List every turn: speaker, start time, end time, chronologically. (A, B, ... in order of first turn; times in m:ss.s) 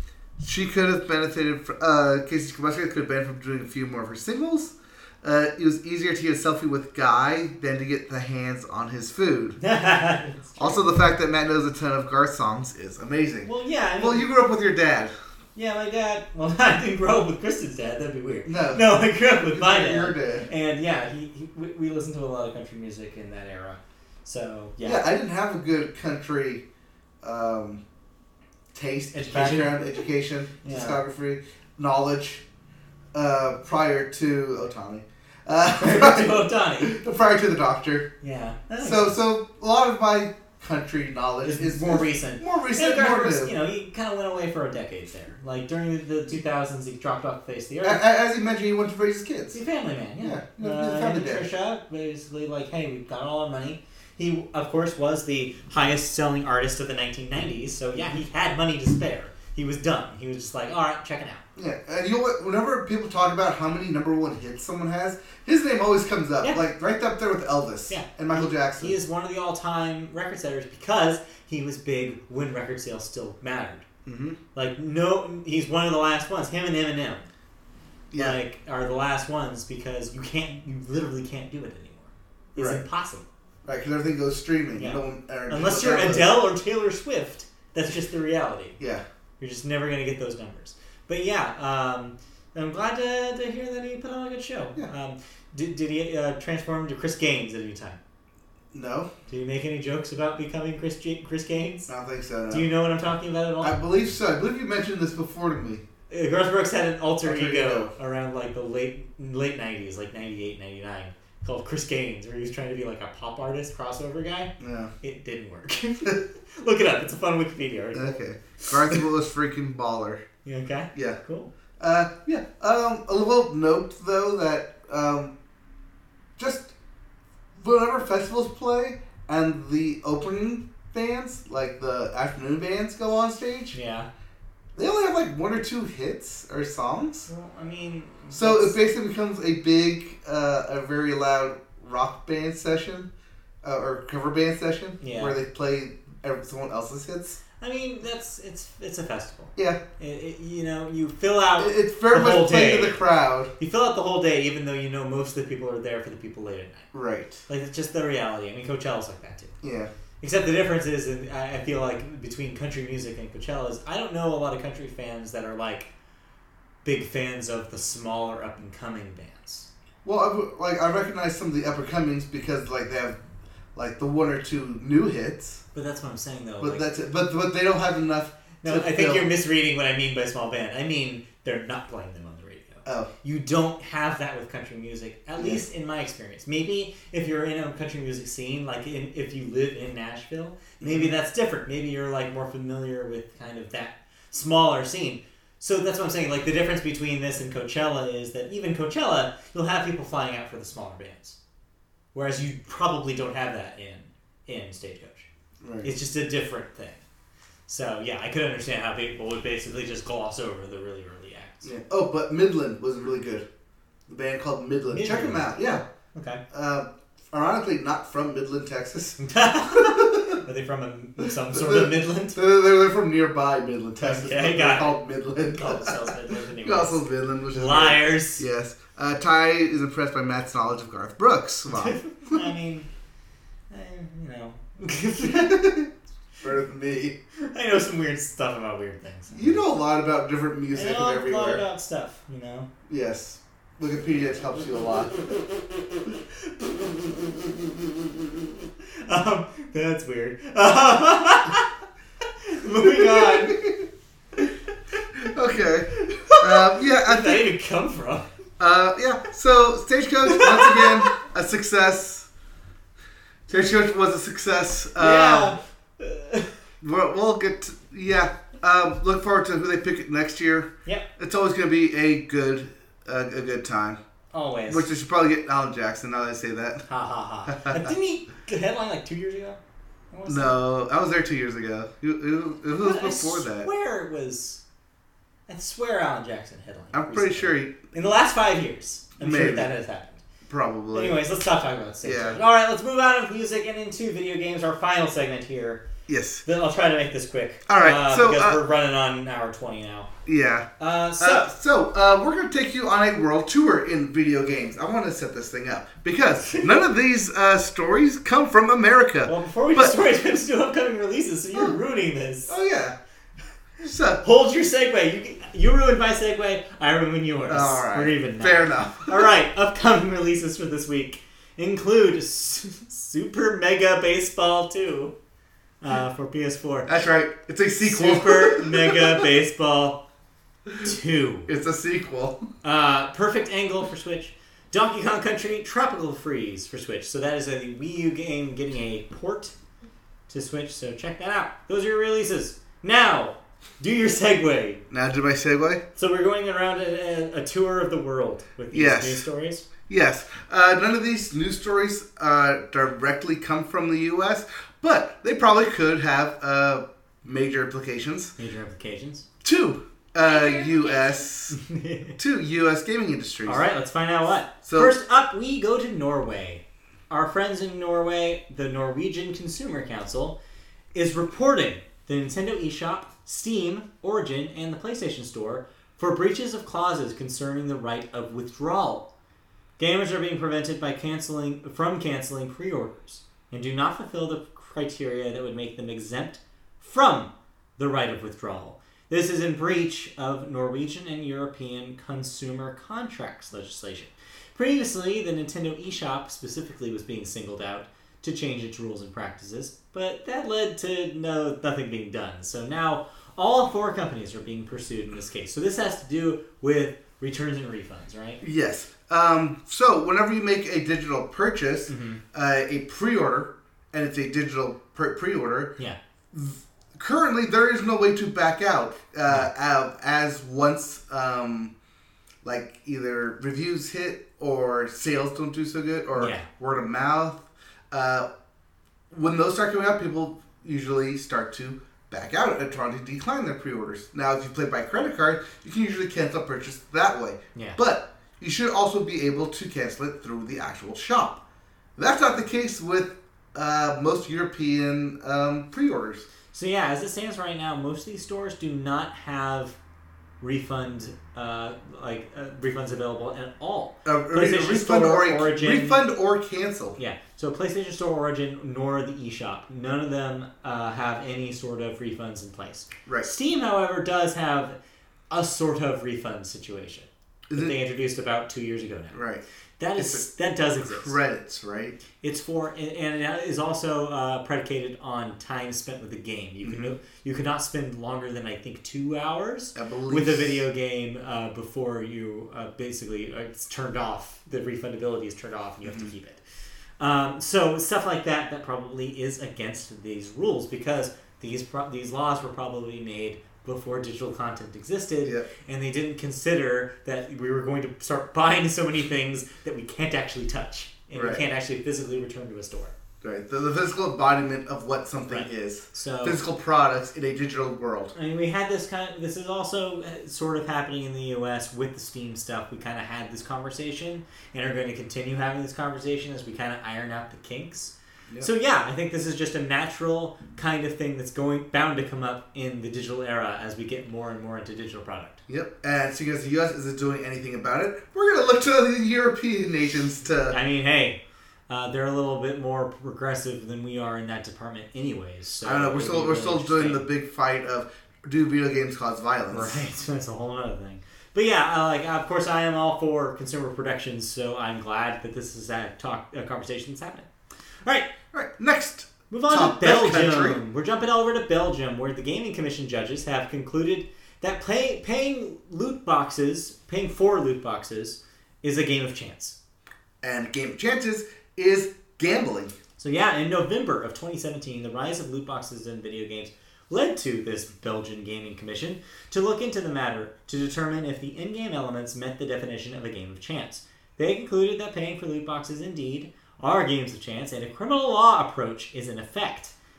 0:00.4-0:09.6 A
0:09.6-0:10.9 B
0:10.6-0:15.1 A
0:13.4-0:14.3 B
0:15.5-0:25.0 B
0:18.4-0:18.8 A
0:19.5-0:20.5 A
0:24.8-0:26.6 A
0:27.2-0:27.8 A
0:28.7-0:32.4 A
0:29.1-0:29.8 B
0:30.6-0:31.0 B
0:33.1-0:38.1 A
0:35.8-0:36.9 B
0:38.2-0:39.2 B
0:38.8-0:43.5 A
0:41.4-0:48.0 B
0:47.8-0:49.6 A
0:49.5-1:01.4 B
0:50.2-0:51.5 A
1:01.6-1:09.0 A
1:07.9-1:13.8 B
1:14.0-1:14.4 A
1:14.5-1:17.3 B
1:18.1-1:18.4 A
1:18.1-1:23.2 B
1:22.6-1:22.8 A
1:23.6-1:26.3 A
1:24.8-1:28.8 B
1:29.4-1:38.0 B
1:38.7-1:39.1 A
1:39.3-1:41.9 B
1:41.9-1:42.6 A
1:42.5-1:43.8 B
1:43.6-1:45.8 A
1:46.1-1:59.0 B
1:47.2-1:47.9 A
1:54.6-1:54.9 A
1:57.9-2:00.2 A
2:00.4-2:01.5 B
2:01.8-2:05.3 A
2:06.4-2:06.7 A
2:07.6-2:13.8 A
2:13.7-2:14.1 B
2:14.7-2:17.3 A
2:17.3-2:18.8 B
2:18.3-2:23.1 A
2:23.6-2:27.4 A
2:25.0-2:25.4 B
2:27.6-2:33.0 B
2:31.6-2:33.5 A
2:33.6-2:36.9 B
2:36.9-2:37.4 A
2:37.5-2:39.5 B
2:39.6-2:39.9 A
2:40.2-2:45.9 B
2:46.8-2:49.7 B
2:50.0-2:53.2 A
2:53.7-2:55.6 A
2:55.7-2:56.8 B
2:56.6-2:59.3 A
2:58.6-3:21.4 B
3:02.8-3:03.1 A
3:05.4-3:05.6 A
3:10.8-3:11.2 A
3:22.1-3:25.3 B
3:25.6-3:25.9 A
3:25.8-3:27.0 B
3:27.7-3:31.7 B
3:31.6-3:33.4 A
3:34.1-3:35.8 A
3:34.9-3:36.4 B
3:36.5-3:39.2 A
3:39.2-3:42.4 B
3:39.7-3:40.4 A
3:41.5-3:46.0 A
3:44.0-3:48.4 B
3:46.6-3:52.5 A
3:51.7-3:52.9 B
3:53.7-3:55.8 B
3:55.2-3:55.9 A
3:56.4-3:57.2 A
3:57.4-3:59.6 B
3:59.3-4:01.6 A
4:00.7-4:02.7 B
4:02.9-4:05.2 A
4:08.8-4:11.7 B
4:12.4-4:13.6 B
4:12.8-4:13.9 A
4:14.4-4:15.0 B
4:15.2-4:17.4 A
4:15.9-4:18.3 B
4:18.6-4:22.3 A
4:20.2-4:21.2 B
4:23.5-4:25.5 A
4:25.0-4:26.5 B
4:26.8-4:34.0 A
4:34.3-4:34.9 B
4:34.7-4:36.8 A
4:36.8-4:39.6 B
4:37.5-4:37.9 A
4:40.1-4:40.6 B
4:40.3-4:43.7 A
4:42.7-4:44.6 B
4:45.5-4:50.2 B
4:46.9-4:47.8 A
4:49.2-4:49.7 A
4:50.5-4:51.2 A
4:50.9-4:55.8 B
4:52.0-4:52.4 A
4:56.1-4:56.4 A
4:56.4-5:00.1 B
4:57.7-4:58.6 A
5:00.2-5:10.0 A
5:00.8-5:01.5 B
5:06.4-5:06.8 B
5:09.2-5:12.6 B
5:12.5-5:13.0 A
5:13.8-5:14.2 A
5:14.2-5:25.1 B
5:17.5-5:19.3 A
5:25.8-5:26.9 B
5:26.9-5:29.1 A
5:27.8-5:30.0 B
5:30.8-5:31.5 B
5:31.5-5:32.4 A
5:32.6-5:39.5 B
5:40.3-5:44.8 B
5:44.9-5:45.8 A
5:46.0-5:49.6 B
5:48.7-5:49.2 A
5:49.9-5:58.3 A
5:58.4-5:59.3 B
5:59.4-6:01.6 A
6:01.5-6:02.2 B
6:02.2-6:03.6 A
6:03.4-6:10.4 B
6:04.6-6:04.9 A
6:10.9-6:19.1 B
6:19.8-6:48.4 B
6:48.4-6:55.7 A
6:51.9-6:52.2 B
6:56.3-7:01.7 A
7:02.4-7:08.2 A
7:06.2-7:06.5 B
7:09.1-7:21.4 A
7:22.0-7:26.3 A
7:26.5-7:29.8 B
7:30.4-7:36.0 B
7:34.0-7:37.0 A
7:37.0-7:44.8 B
7:45.3-7:49.2 B
7:47.5-7:47.7 A
7:49.1-7:49.4 A
7:49.8-7:51.2 B
7:50.0-7:50.2 A
7:50.8-7:52.0 A
7:52.2-8:06.4 B
7:56.6-7:56.9 A
7:59.7-8:00.6 A
8:05.8-8:06.1 A
8:07.0-8:22.9 B
8:21.1-8:21.4 A
8:23.2-8:28.1 A
8:25.3-8:26.4 B
8:28.1-8:45.4 B
8:45.5-8:50.6 A
8:50.5-8:57.0 B
8:55.6-8:59.8 A
8:59.5-9:07.3 B
9:07.8-9:08.1 B
9:08.3-9:10.6 A
9:09.3-9:19.6 B
9:20.2-9:22.7 A
9:23.0-9:39.7 B